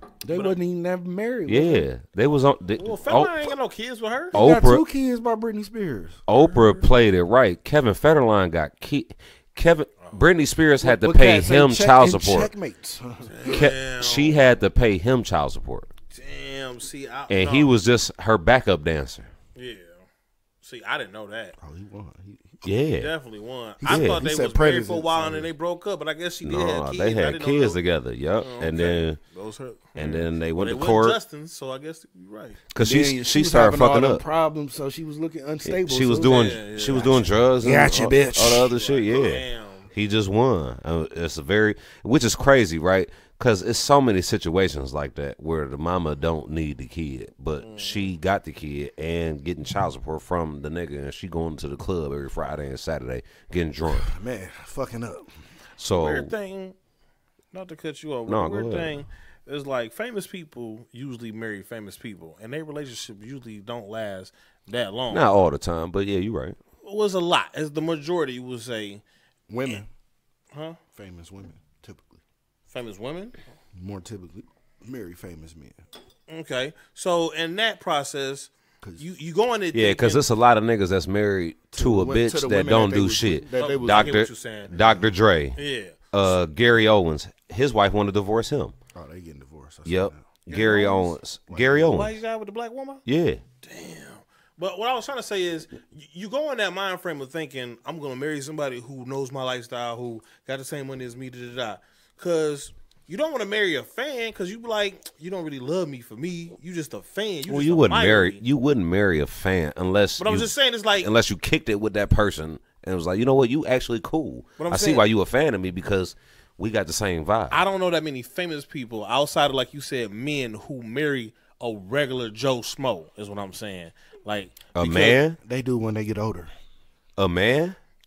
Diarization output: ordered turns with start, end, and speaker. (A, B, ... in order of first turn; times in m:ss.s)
0:00.2-0:01.9 A
0:00.3-0:00.6 B
0:01.4-0:03.5 C
0:02.8-0:04.4 B
0:04.3-0:04.8 C
0:04.3-0:06.2 A
0:06.3-0:12.5 C
0:06.3-0:06.8 B
0:10.8-0:13.7 A
0:13.3-0:14.4 B
0:13.5-0:15.9 C
0:16.1-0:17.7 B
0:17.3-0:19.3 C
0:19.6-0:20.0 B
0:20.6-0:21.6 B
0:21.6-0:22.6 A
0:22.6-0:23.1 C
0:23.0-0:27.8 B
0:23.8-0:25.5 A
0:23.9-0:24.2 C
0:26.4-0:29.2 C
0:28.4-0:32.6 B
0:30.0-0:31.2 C
0:32.7-0:34.2 C
0:32.8-0:38.8 A
0:35.6-0:54.1 C
0:36.2-0:37.3 B
0:38.6-0:39.9 B
0:47.6-0:48.1 B
0:53.9-0:55.3 A
0:55.8-0:56.3 C
0:56.0-0:56.8 B
0:57.5-1:05.3 B
0:58.3-0:59.0 C
1:05.1-1:06.6 C
1:06.8-1:09.0 B
1:09.5-1:09.9 A
1:10.5-1:10.8 B
1:10.9-1:12.2 A
1:12.7-1:13.4 B
1:13.7-1:15.8 A
1:16.3-1:20.2 B
1:19.7-1:25.6 C
1:21.7-1:24.2 A
1:23.6-1:24.8 B
1:25.6-1:26.0 B
1:26.1-1:28.8 C
1:28.9-1:30.3 A
1:29.8-1:32.2 C
1:30.5-1:31.1 B
1:31.5-1:32.0 A
1:31.8-1:33.0 B
1:33.0-1:33.4 C
1:33.6-1:48.4 B
1:47.5-1:57.6 C
1:50.2-1:51.1 B
1:54.6-1:55.0 B
1:57.5-2:05.2 B
2:04.8-2:05.4 C
2:05.4-2:06.5 A
2:07.2-2:07.8 C